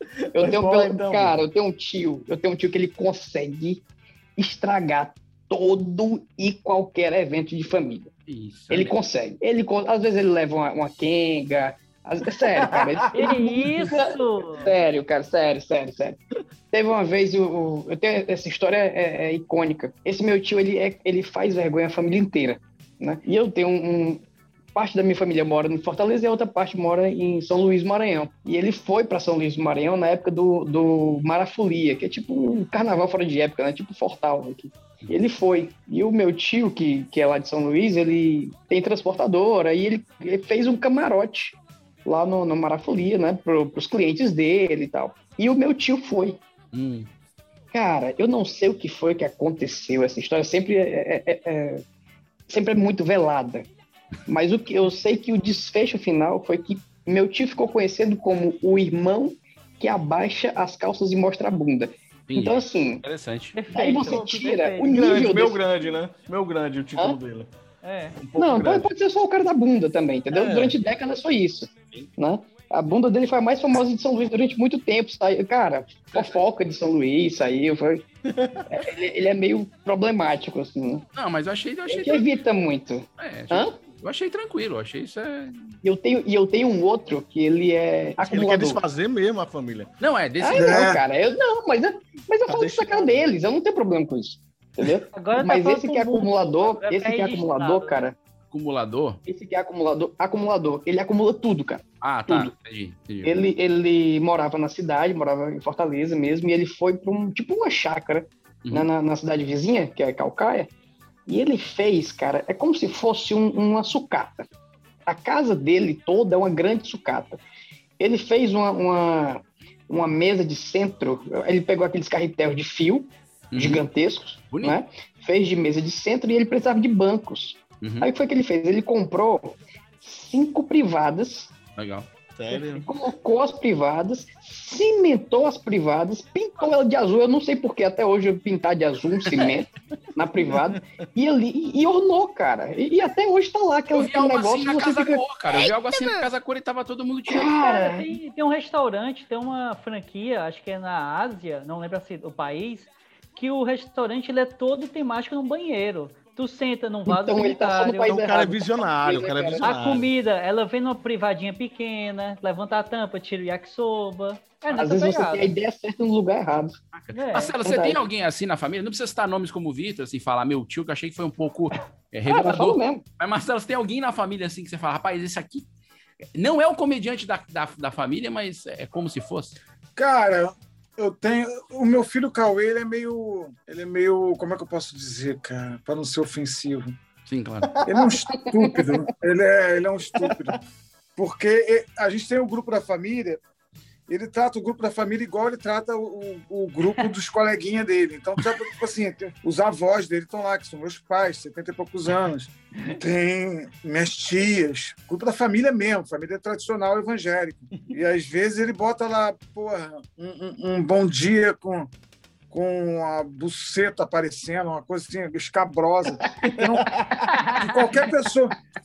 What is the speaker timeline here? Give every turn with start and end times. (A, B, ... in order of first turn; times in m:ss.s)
0:00.2-0:01.4 A
0:00.3-0:03.8 B
0:04.4-0:08.1 B
0:08.3-0:09.0 C
0:08.7-0:16.2 B
0:12.6-0:13.0 A
0:13.1-0:14.7 D
0:16.7-0:24.2 B
0:24.7-0:46.4 B
0:46.7-0:47.1 C
0:47.7-0:51.8 B
0:52.5-0:53.7 B
0:54.3-1:03.0 B
1:02.3-1:03.6 C
1:03.6-1:04.9 D
1:03.7-1:05.6 B
1:04.0-1:04.3 A
1:04.8-1:07.5 A
1:07.8-1:08.2 D
1:08.2-1:08.9 A
1:08.4-1:18.0 B
1:10.3-1:10.8 A
1:16.1-1:16.4 C
1:18.3-1:18.8 A
1:18.7-1:21.0 B
1:21.1-1:22.3 C
1:21.9-1:23.8 B
1:23.2-1:25.7 C
1:25.8-1:28.8 B
1:28.2-1:29.9 A
1:30.0-1:31.0 C
1:30.4-1:38.1 B
1:30.5-1:31.0 E
1:32.5-1:33.2 A
1:35.1-1:38.0 D
1:38.5-1:39.2 C
1:39.3-1:42.5 B
1:42.0-1:43.4 C
1:43.2-1:50.7 B
1:51.3-1:54.5 B
1:55.1-1:57.4 B
1:58.0-2:11.5 B
2:03.5-2:03.8 C
2:04.5-2:04.8 C
2:07.8-2:08.1 C
2:11.8-2:12.1 C
2:12.4-2:12.9 A
2:12.7-2:25.2 B
2:20.4-2:20.8 A
2:23.9-2:27.6 C
2:27.3-2:28.1 B
2:27.6-2:38.2 D
2:37.1-2:39.6 B
2:38.1-2:40.1 A
2:39.6-2:45.5 D
2:44.7-2:46.8 B
2:46.9-2:55.6 C
2:47.1-2:47.5 D
2:47.6-2:48.0 B
2:52.2-2:53.0 B
2:56.4-2:59.6 C
3:00.0-3:07.0 E
3:07.3-3:07.8 C
3:07.8-3:10.6 E
3:08.3-3:09.0 B
3:11.2-3:13.4 E
3:14.1-3:31.9 E
3:32.5-3:36.9 E
3:36.4-3:37.3 A
3:37.3-3:37.8 D
3:37.5-3:38.5 E